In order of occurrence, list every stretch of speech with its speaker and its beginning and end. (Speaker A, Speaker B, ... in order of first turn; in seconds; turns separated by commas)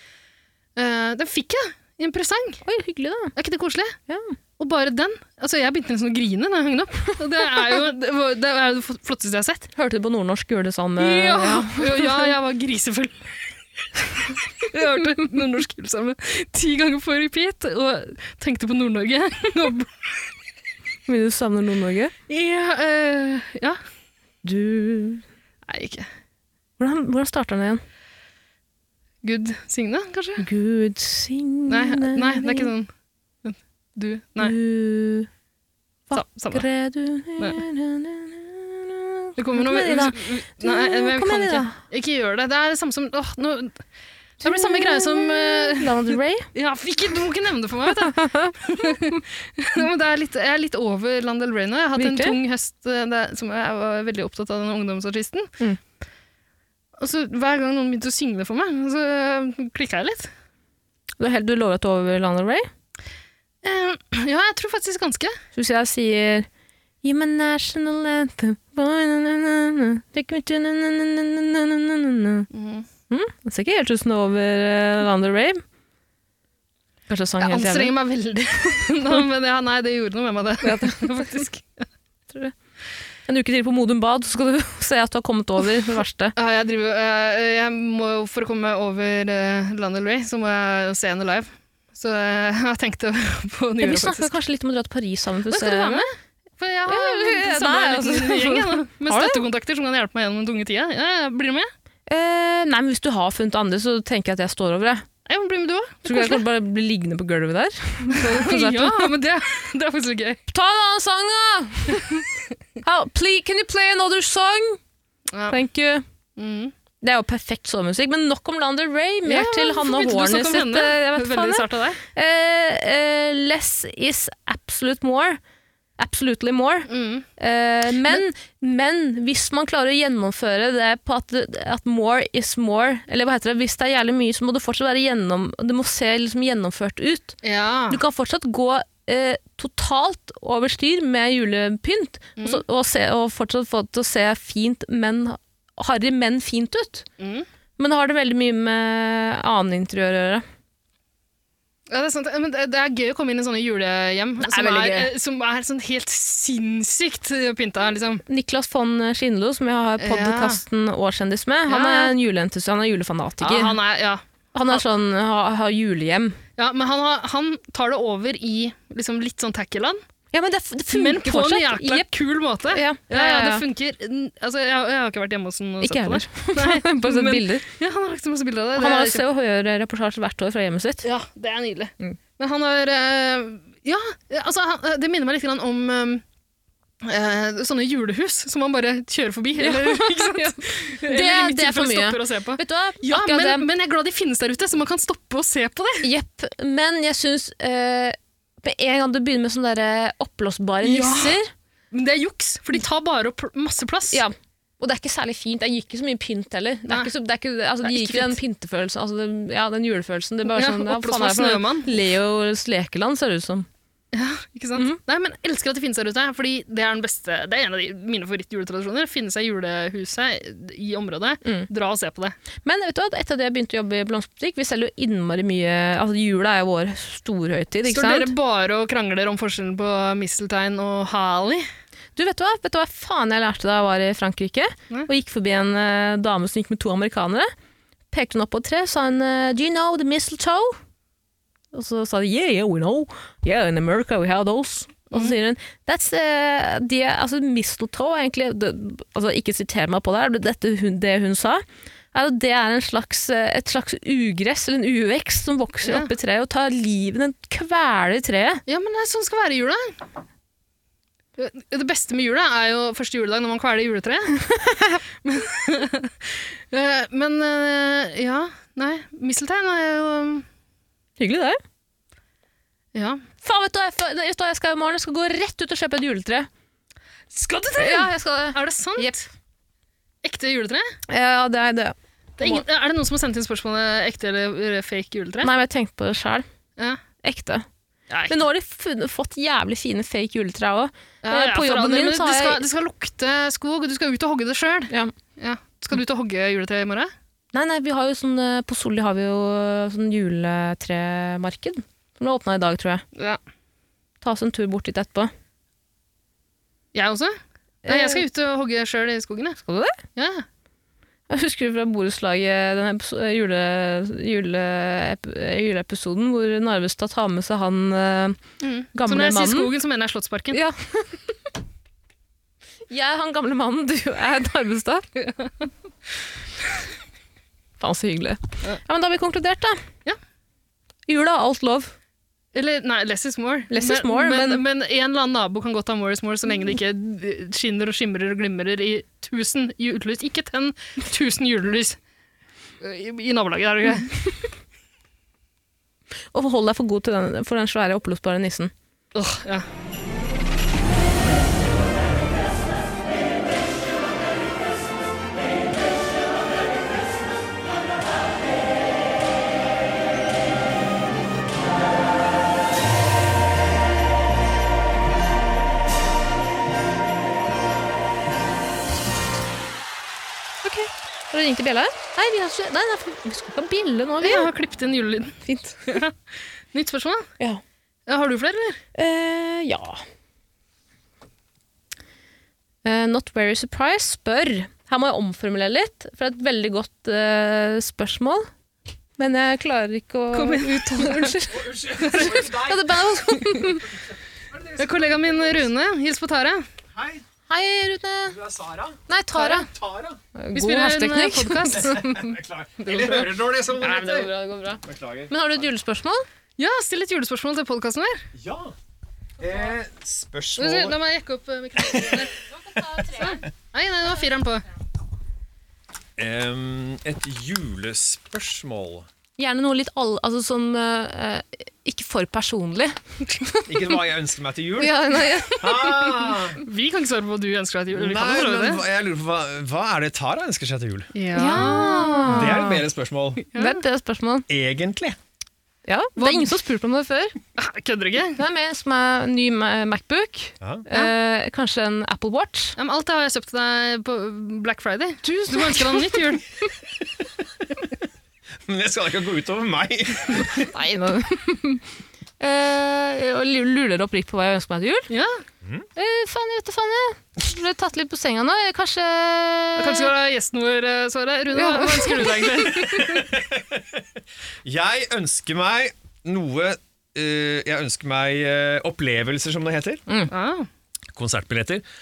Speaker A: 0.8-2.6, Speaker B: 2.6-3.3, Speaker A: 3.3-4.0, Speaker B: 4.1-4.3, Speaker A: 4.6-9.7, Speaker B: 9.7-12.3, Speaker A: 11.0-13.2, Speaker A: 14.0-19.9, Speaker B: 21.1-22.1, Speaker A: 22.3-23.8, Speaker B: 24.4-25.2, Speaker A: 25.7-26.1, Speaker B: 26.8-27.8, Speaker A: 29.2-30.5, Speaker B: 30.4-32.7, Speaker A: 31.7-32.9, Speaker A: 33.4-34.5, Speaker B: 34.4-35.3, Speaker B: 36.1-41.8, Speaker A: 36.1-36.6, Speaker A: 37.4-37.6, Speaker A: 39.4-43.8, Speaker B: 44.4-46.5, Speaker A: 44.4-55.5, Speaker B: 47.9-49.2, Speaker B: 52.0-52.4, Speaker A: 57.0-60.3, Speaker B: 61.2-62.7, Speaker A: 63.6-65.4, Speaker B: 65.5-66.5, Speaker B: 67.0-72.5, Speaker A: 72.5-72.9, Speaker B: 73.1-75.6, Speaker B: 77.1-77.9, Speaker A: 77.4-81.8, Speaker B: 80.6-81.4, Speaker B: 83.2-86.3, Speaker A: 86.3-94.3, Speaker B: 93.8-96.1, Speaker A: 95.5-101.7, Speaker B: 96.9-99.4, Speaker B: 102.1-105.0, Speaker A: 105.2-106.4, Speaker B: 106.0-109.2, Speaker A: 108.1-110.4, Speaker B: 110.5-112.2, Speaker B: 112.8-114.8, Speaker A: 115.3-115.6, Speaker B: 115.5-116.0, Speaker A: 116.4-116.7, Speaker B: 117.0-125.4, Speaker A: 119.2-122.0, Speaker B: 126.0-147.1, Speaker A: 126.9-127.2, Speaker A: 137.4-138.0, Speaker A: 142.4-142.6, Speaker A: 147.2-147.4, Speaker B: 147.8-150.4, Speaker A: 151.9-158.2, Speaker B: 154.4-155.1, Speaker B: 158.3-163.8, Speaker A: 160.0-160.6, Speaker A: 161.7-162.1, Speaker A: 163.4-164.8, Speaker B: 164.5-166.4, Speaker A: 166.6-170.0, Speaker B: 170.3-172.1, Speaker A: 170.9-179.2, Speaker B: 172.7-173.6, Speaker B: 175.8-177.7, Speaker B: 178.7-181.1, Speaker A: 181.0-186.2, Speaker A: 187.0-196.1, Speaker B: 189.6-193.7, Speaker B: 196.0-201.5, Speaker A: 200.8-201.4, Speaker A: 201.9-204.2, Speaker B: 204.1-213.7, Speaker A: 207.8-208.4, Speaker A: 210.5-211.9, Speaker A: 214.1-222.3, Speaker B: 222.6-228.3, Speaker A: 227.8-231.7, Speaker B: 232.2-237.5, Speaker B: 238.1-240.8, Speaker B: 241.7-258.6, Speaker A: 255.8-256.1, Speaker A: 258.7-260.0, Speaker A: 261.4-264.4, Speaker B: 264.4-265.0, Speaker A: 265.2-270.4, Speaker B: 271.2-271.6, Speaker A: 272.9-273.2, Speaker B: 273.4-276.5, Speaker A: 277.3-279.2, Speaker B: 277.8-279.2, Speaker A: 280.2-280.9, Speaker B: 281.1-282.6, Speaker A: 282.4-285.5, Speaker B: 285.4-286.4, Speaker B: 287.2-287.7, Speaker A: 288.1-288.4, Speaker B: 288.3-292.6, Speaker A: 291.2-297.1, Speaker B: 297.5-303.0, Speaker B: 304.2-305.3, Speaker A: 306.9-309.6, Speaker B: 307.8-308.2, Speaker B: 309.6-310.0, Speaker A: 310.1-310.4, Speaker B: 311.3-318.4, Speaker A: 318.6-320.6, Speaker B: 318.9-319.7, Speaker B: 320.5-321.4, Speaker B: 322.9-325.1, Speaker A: 325.2-325.5, Speaker B: 327.8-329.8, Speaker B: 331.1-331.9, Speaker A: 332.5-342.0, Speaker B: 333.7-334.6, Speaker A: 342.8-344.2, Speaker B: 346.3-348.7, Speaker A: 349.1-349.6, Speaker B: 370.6-374.5, Speaker A: 374.2-377.3, Speaker B: 375.4-376.0, Speaker A: 378.1-378.8, Speaker B: 378.9-380.0, Speaker B: 382.8-388.5, Speaker B: 389.2-393.9, Speaker A: 390.3-391.3, Speaker C: 391.5-392.9, Speaker A: 392.0-392.5, Speaker C: 394.0-395.6, Speaker A: 394.8-396.6, Speaker C: 396.9-397.2, Speaker B: 397.5-398.4, Speaker C: 398.2-400.2, Speaker B: 399.1-399.7, Speaker A: 399.4-399.6, Speaker B: 400.4-402.2, Speaker A: 400.5-403.3, Speaker C: 402.0-404.3, Speaker B: 403.8-406.2, Speaker C: 404.8-405.3, Speaker A: 406.6-408.2, Speaker C: 408.4-408.7, Speaker C: 409.4-411.0, Speaker A: 410.6-412.3, Speaker C: 411.8-412.2, Speaker B: 412.8-413.4, Speaker A: 413.0-414.6, Speaker C: 416.2-419.1, Speaker B: 419.4-424.0, Speaker C: 423.6-425.0, Speaker B: 424.8-426.4, Speaker C: 425.6-426.6, Speaker A: 426.6-428.8, Speaker C: 427.9-431.1, Speaker A: 431.1-432.5, Speaker B: 431.3-432.8, Speaker C: 432.2-433.5, Speaker A: 433.5-433.8, Speaker B: 433.5-434.5, Speaker C: 434.5-435.2, Speaker B: 435.9-437.4, Speaker A: 436.2-436.5, Speaker A: 437.6-438.4, Speaker B: 438.4-442.8, Speaker C: 440.6-440.9, Speaker A: 442.8-446.4, Speaker B: 445.2-446.4, Speaker C: 448.7-450.7, Speaker B: 450.7-451.8, Speaker B: 452.4-455.1, Speaker A: 455.1-455.4, Speaker B: 455.9-460.1, Speaker A: 459.8-463.2, Speaker B: 461.5-462.8, Speaker C: 462.2-464.0, Speaker C: 464.6-470.0, Speaker A: 470.3-470.7, Speaker C: 471.1-471.8